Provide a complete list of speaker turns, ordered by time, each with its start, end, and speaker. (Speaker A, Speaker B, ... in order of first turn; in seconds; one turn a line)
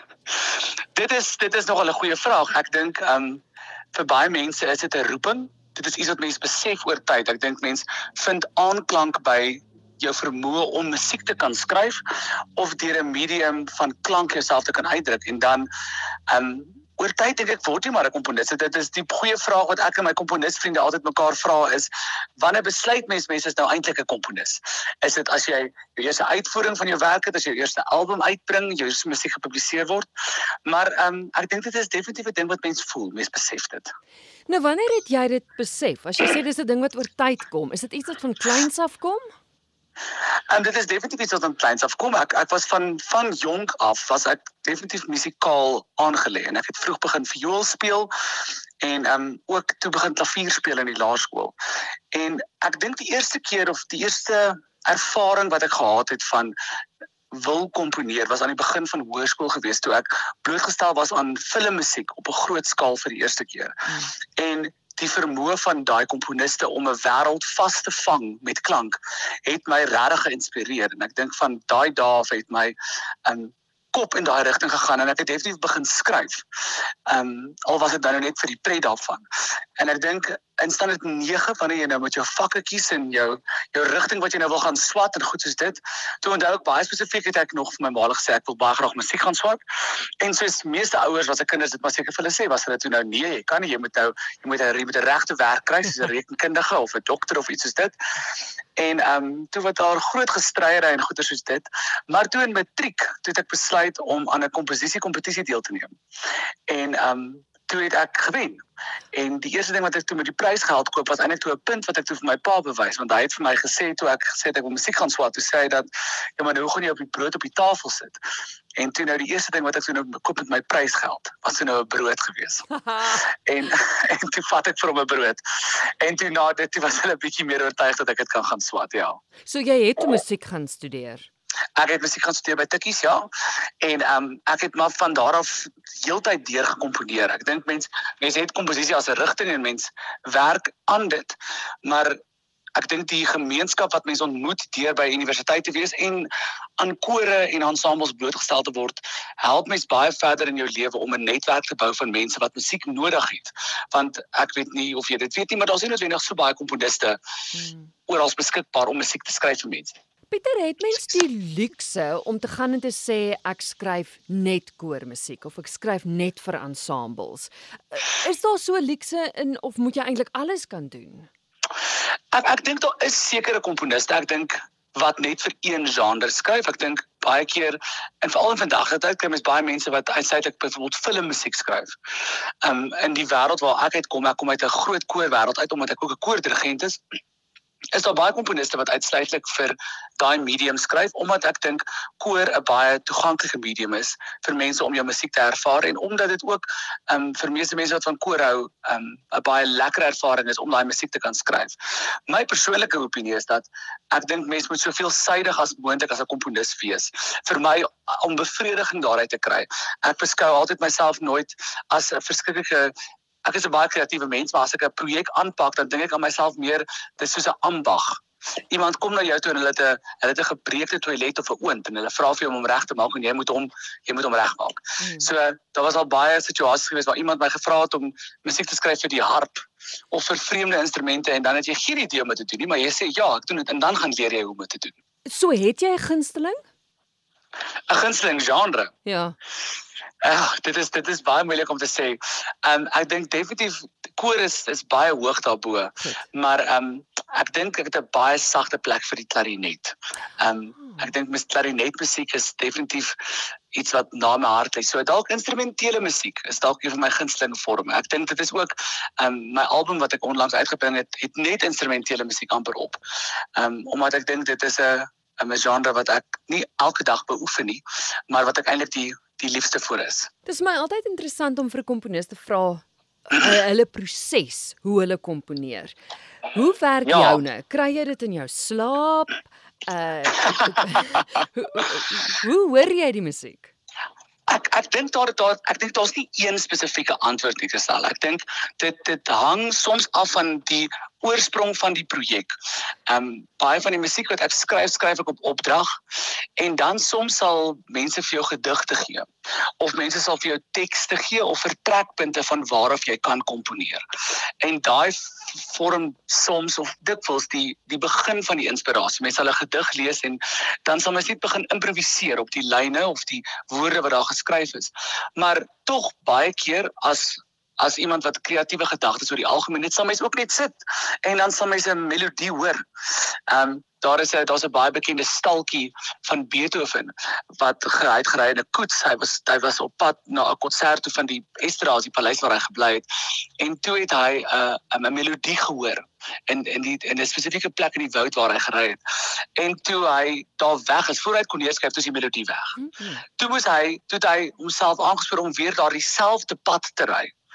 Speaker A: 0.9-12.0
Speaker A: 12.6-15.7
Speaker A: 16.3-30.1
Speaker A: 30.7-33.9
Speaker B: 34.5-39.3
Speaker A: 40.5-48.1
Speaker A: 48.8-51.6
Speaker A: 52.1-56.5
Speaker A: 57.3-76.5
Speaker A: 77.1-79.2
Speaker A: 79.8-98.0
Speaker A: 98.8-105.9
Speaker A: 106.7-108.6
Speaker A: 109.1-115.9
Speaker A: 116.4-118.2
Speaker A: 118.8-122.7
Speaker B: 122.8-123.2
Speaker A: 123.2-129.2
Speaker B: 129.5-131.3
Speaker A: 131.8-133.3
Speaker A: 133.8-142.2
Speaker A: 142.8-157.2
Speaker B: 157.5-157.9
Speaker A: 158.1-160.0
Speaker B: 160.3-171.3
Speaker A: 172.3-181.9
Speaker A: 182.6-187.0
Speaker A: 187.9-201.8
Speaker A: 202.3-212.9
Speaker A: 213.4-235.0
Speaker B: 225.0-225.3
Speaker B: 235.3-236.7
Speaker A: 237.9-238.9
Speaker B: 239.1-239.4
Speaker A: 240.2-263.0
Speaker A: 263.6-270.3
Speaker B: 270.4-276.0
Speaker B: 276.5-283.7
Speaker A: 277.1-277.4
Speaker A: 284.5-292.5
Speaker A: 293.1-296.0
Speaker A: 296.6-299.3
Speaker A: 299.8-304.0
Speaker A: 304.6-333.1
Speaker A: 333.6-342.8
Speaker B: 342.8-343.2
Speaker A: 343.4-347.3